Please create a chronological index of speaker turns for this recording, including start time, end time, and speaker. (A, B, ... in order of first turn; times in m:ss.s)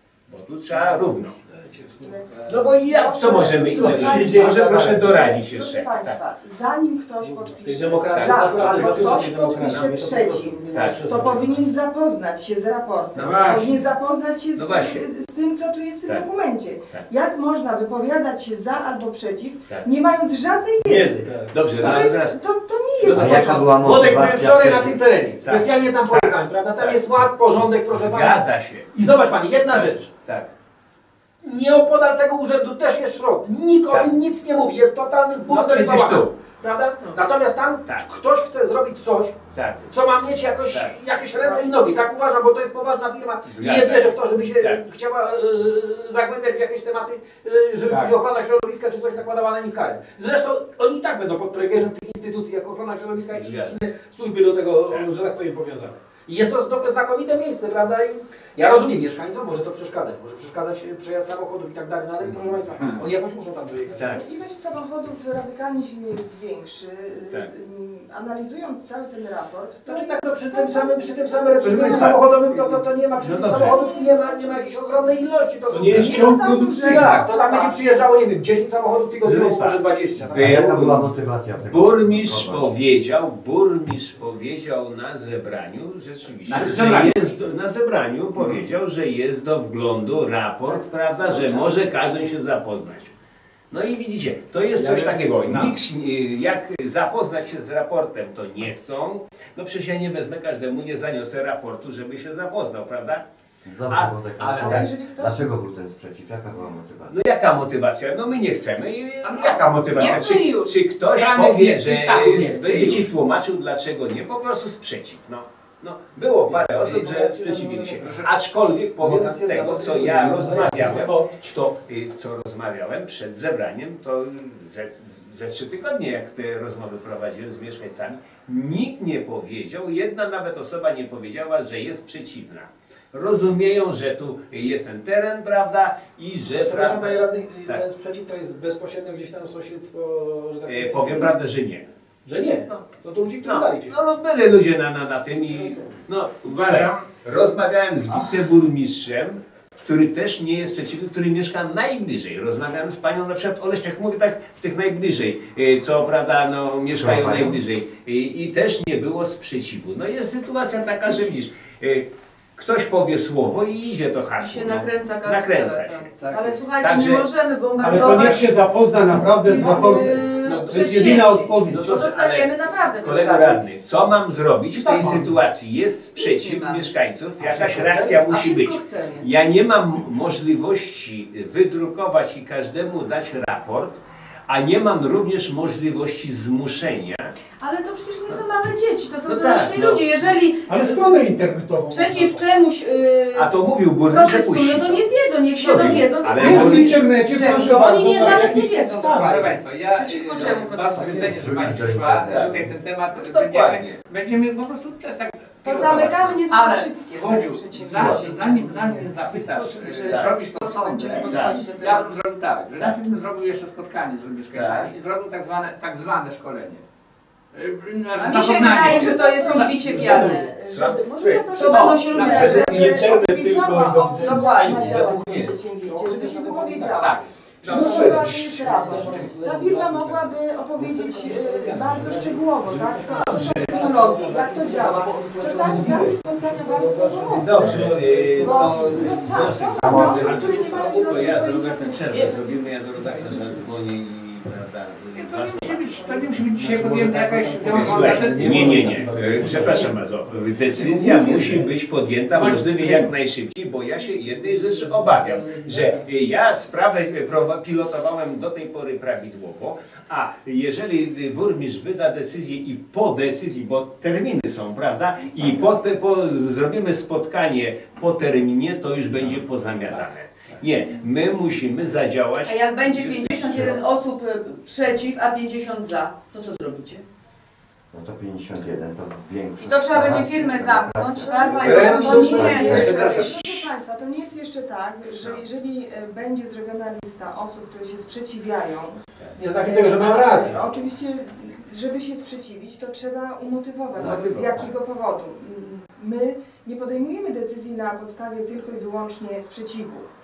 0:00.3-0:01.4 A
0:01.4-0:05.1 B
0:02.0-0:23.8 C
0:02.4-0:06.2 A
0:07.2-0:11.6 B
0:08.1-0:09.9 A
0:10.7-0:11.4 A
0:13.1-0:13.8 A
0:14.5-0:15.0 A
0:20.8-0:22.1 B
0:20.9-0:22.3 A
0:23.0-0:30.1 B
0:23.1-0:25.0 D
0:25.4-0:27.0 A
0:27.9-0:28.9 A
0:29.7-0:30.5 A
0:31.4-1:04.2 B
0:35.5-0:36.5 A
0:39.5-0:40.0 A
0:40.7-0:41.0 A
0:43.5-0:44.1 A
0:53.3-0:53.8 A
1:04.0-1:04.2 A
1:04.0-1:12.2 C
1:09.8-1:20.7 B
1:11.6-1:12.2 E
1:11.6-1:12.2 A
1:13.2-1:13.7 A
1:13.2-1:15.0 C
1:15.7-1:17.2 E
1:15.8-1:16.2 A
1:15.9-1:18.1 C
1:19.2-1:21.1 A
1:20.3-1:22.7 D
1:21.7-1:33.1 A
1:26.4-1:27.4 F
1:30.6-1:32.0 G
1:33.7-1:43.2 A
1:43.6-1:47.2 D
1:44.4-1:44.8 F
1:44.4-1:45.5 C
1:47.1-2:17.8 A
1:49.2-1:50.3 F
1:49.9-1:50.8 G
1:51.2-1:53.1 F
1:56.4-1:58.3 B
1:59.0-2:01.2 B
2:00.5-2:01.3 E
2:16.6-2:21.4 B
2:20.6-2:21.9 A
2:22.2-2:24.0 B
2:23.4-2:46.1 A
2:25.5-2:25.8 B
2:26.4-2:27.0 F
2:37.0-2:37.6 D
2:44.4-2:48.7 G
2:46.2-2:46.6 F
2:46.8-2:47.2 A
2:47.8-2:52.0 E
2:49.4-2:53.6 G
2:50.6-2:51.1 B
2:51.7-3:07.3 A
2:54.7-2:55.2 B
2:56.2-2:56.8 G
2:57.4-2:58.2 B
2:58.2-2:59.3 G
3:07.6-3:11.3 G
3:09.2-3:10.3 A
3:10.7-3:12.4 E
3:11.8-3:13.5 G
3:13.3-3:17.0 A
3:14.0-3:21.6 G
3:16.4-3:19.5 E
3:18.2-3:36.8 F
3:21.0-3:22.7 D
3:22.3-3:24.0 A
3:25.6-3:28.9 G
3:28.7-3:29.1 D
3:29.4-3:30.3 A
3:29.8-3:32.2 G
3:31.2-3:31.6 A
3:34.5-3:34.9 A
3:37.5-3:40.1 F
3:38.2-3:40.6 G
3:38.8-4:02.6 C
3:39.9-3:40.3 E
3:39.9-3:40.4 B
3:40.7-3:41.4 A
3:41.5-3:43.1 G
3:41.6-3:42.6 F
3:42.2-3:44.7 E
3:44.0-3:45.1 G
3:44.4-3:47.1 B
3:45.1-3:45.5 A
3:46.8-3:47.3 F
3:47.6-4:02.4 B
3:47.6-3:49.0 E
3:53.2-3:53.5 E
3:55.4-3:56.3 E
3:57.3-4:06.0 A
3:57.7-3:59.5 E
3:59.8-4:00.3 D
4:03.0-4:03.4 E
4:05.1-4:09.0 F
4:06.6-4:09.9 E
4:06.6-4:06.9 B
4:07.7-4:09.7 B
4:07.7-4:33.8 A
4:10.8-4:11.6 B
4:10.9-4:11.4 E
4:12.4-4:13.1 F
4:14.6-4:15.9 B
4:15.1-4:15.5 E
4:32.4-4:37.0 G
4:37.9-4:42.9 D
4:39.6-4:43.5 G
4:41.2-4:49.0 C
4:41.6-4:43.1 B
4:41.7-4:43.4 F
4:45.2-4:45.4 A
4:49.4-4:50.6 B
4:49.6-5:00.0 C
4:53.9-4:54.6 A
4:54.0-4:54.7 D